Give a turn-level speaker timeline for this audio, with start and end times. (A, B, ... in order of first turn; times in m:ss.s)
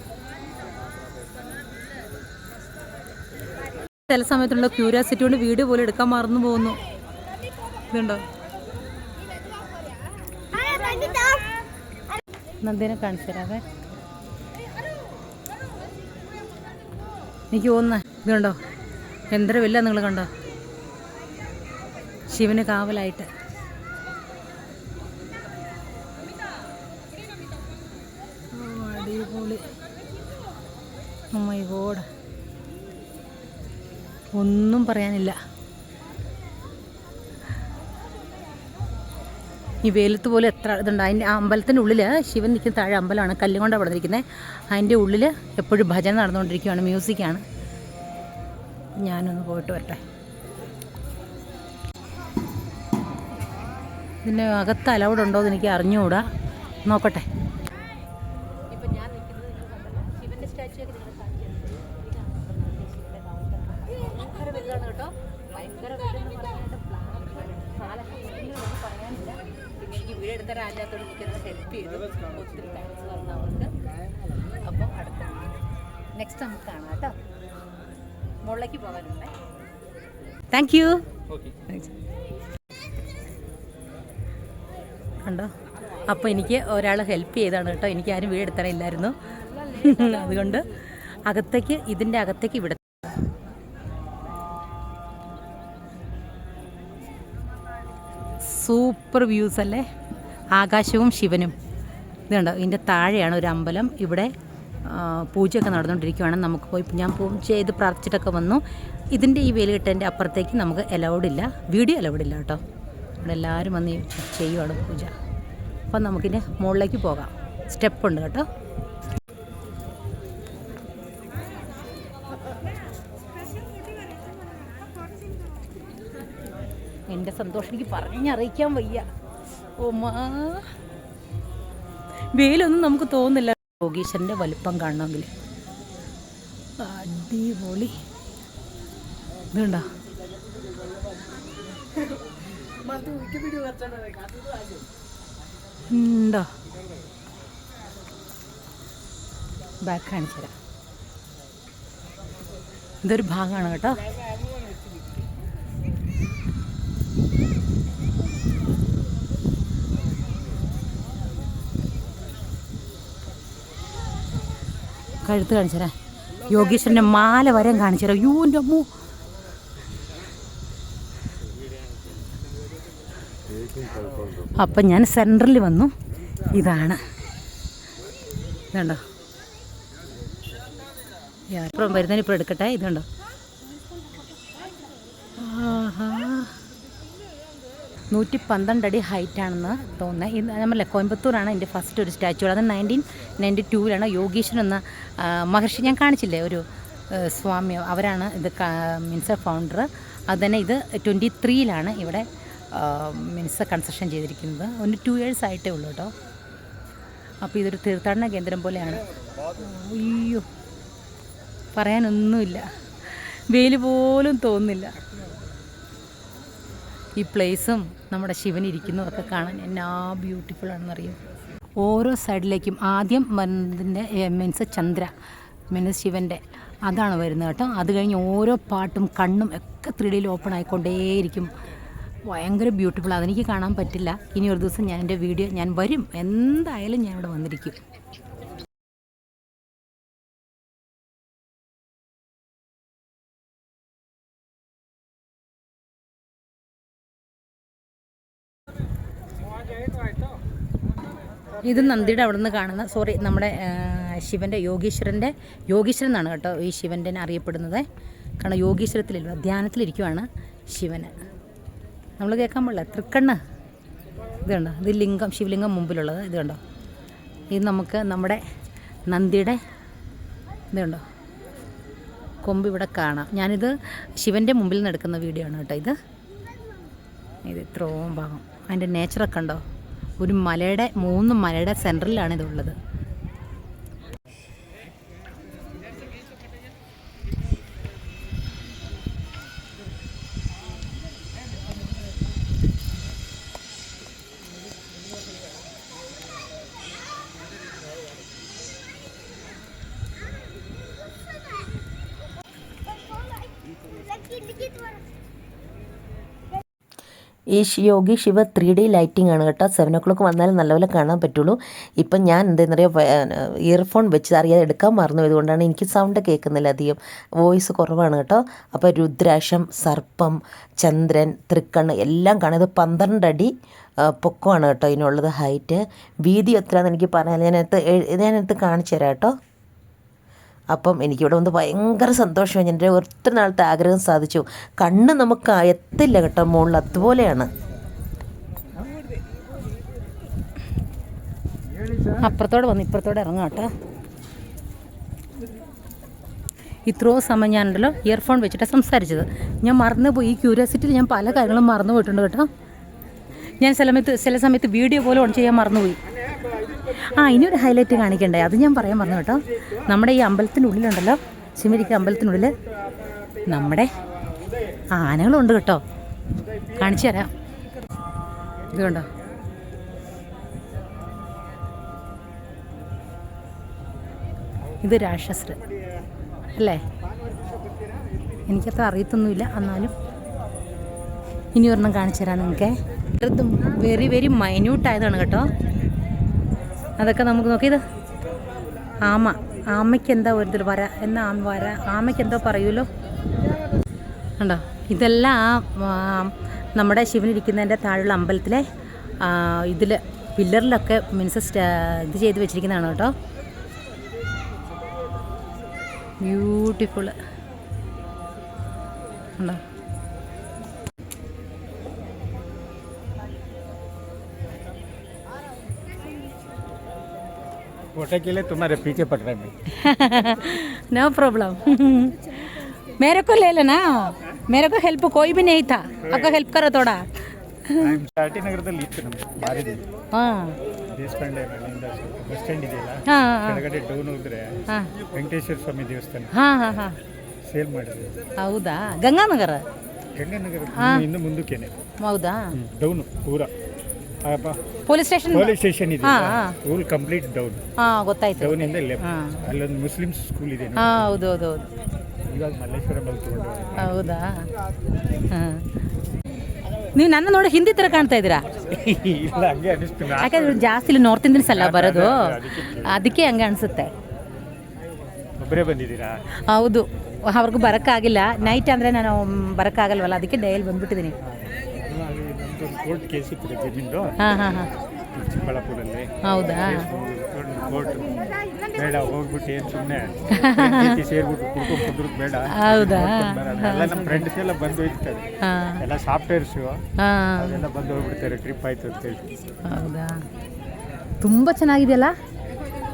0:04.1-0:06.8 A
0:07.9-0:08.2 A
0:12.6-0:13.6 A
0:17.5-0:18.6 A
0:19.3-0:20.3 A
0:22.3-0:23.3 A
0:28.5-0:29.6 A
0:31.3-0:32.1 A
0:34.4-0:35.4 A
0:39.8-0:47.4 A
0:49.0-0:50.0 A
0:54.2-0:56.3 A
0:56.8-0:57.3 A
0:58.7-1:13.7 A
1:14.6-1:15.5 A
1:16.1-1:17.1 A
1:18.4-1:19.3 A
1:20.5-1:21.0 A
1:21.3-1:21.6 B
1:25.2-1:25.5 A
1:26.0-1:33.1 A
1:38.4-1:39.9 A
1:40.5-1:41.6 A
1:42.3-1:44.3 A
1:44.8-1:52.6 A
1:53.2-1:55.1 A
1:55.9-1:58.5 A
2:07.1-2:09.1 A
2:09.8-2:10.7 A
2:12.3-2:15.3 A
2:16.8-2:18.0 A
2:19.5-2:19.9 A
2:25.9-2:26.5 A
2:29.8-2:30.5 A
2:33.0-2:34.0 A
2:45.2-2:45.9 A
2:46.5-2:48.9 A
2:54.6-2:55.9 A
2:56.5-2:57.0 A
2:58.7-2:59.0 A
3:01.5-3:03.1 A
3:05.4-3:06.6 A
3:08.1-3:26.1 A
3:27.4-3:29.0 A
3:29.6-3:30.5 A
3:31.7-3:34.9 A
3:37.2-3:41.2 A
3:41.8-3:45.1 A
3:45.7-3:51.5 A
3:52.2-3:57.8 A
4:11.6-4:17.9 A
4:18.4-4:21.1 A
4:22.2-4:23.4 A
4:24.4-4:26.6 A
4:27.5-4:28.4 A
4:29.1-4:29.6 A
4:30.7-4:31.0 A
4:32.4-4:36.0 A
4:37.4-4:39.6 A
4:40.2-4:42.8 A
5:07.5-5:29.4 C
5:30.7-5:37.5 C
5:41.8-5:42.2 B
5:42.2-5:43.7 A
5:46.9-5:52.5 A
5:53.6-5:56.0 A
5:56.9-6:02.6 A
6:03.4-6:04.0 A
6:04.9-6:05.8 A
6:06.7-6:07.3 A
6:08.7-6:09.1 A
6:14.8-6:15.6 A
6:16.6-6:16.8 A
6:18.5-6:19.9 A
6:21.5-6:25.5 A
6:27.0-6:27.8 A
6:29.0-6:32.9 A
6:34.4-6:38.7 A
6:39.2-6:43.1 A
6:46.2-6:47.2 A
6:58.0-6:59.5 B
6:59.7-7:07.1 A
7:06.0-7:06.5 B
7:07.6-7:08.0 A
7:07.8-7:09.9 B
7:10.1-7:10.5 A
7:10.9-7:16.3 B
7:13.1-7:13.6 A
7:16.3-7:17.0 A
7:17.4-7:18.2 B
7:18.4-7:19.6 A
7:20.2-7:21.8 B
7:20.7-7:21.0 A
7:22.0-7:22.5 A
7:22.5-7:23.5 B
7:24.2-7:24.6 B
7:24.9-7:26.6 A
7:25.3-7:27.6 B
7:27.8-7:29.4 A
7:28.4-7:31.1 B
7:30.8-7:31.7 A
7:32.2-7:33.9 B
7:33.8-7:34.5 A
7:35.3-7:35.6 A
7:37.0-7:38.5 A
7:38.6-7:40.8 B
7:40.2-7:43.9 A
7:41.4-7:43.0 B
7:45.4-7:46.2 B
7:46.4-7:51.1 A
7:51.2-7:54.2 B
7:54.2-7:54.7 A
7:55.1-8:05.2 B
7:56.2-7:56.9 A
8:00.3-8:01.0 A
8:02.5-8:04.2 A
8:05.4-8:05.8 A
8:05.8-8:06.8 B
8:07.0-8:07.6 A
8:07.4-8:09.3 B
8:09.6-8:10.2 A
8:11.2-8:12.2 A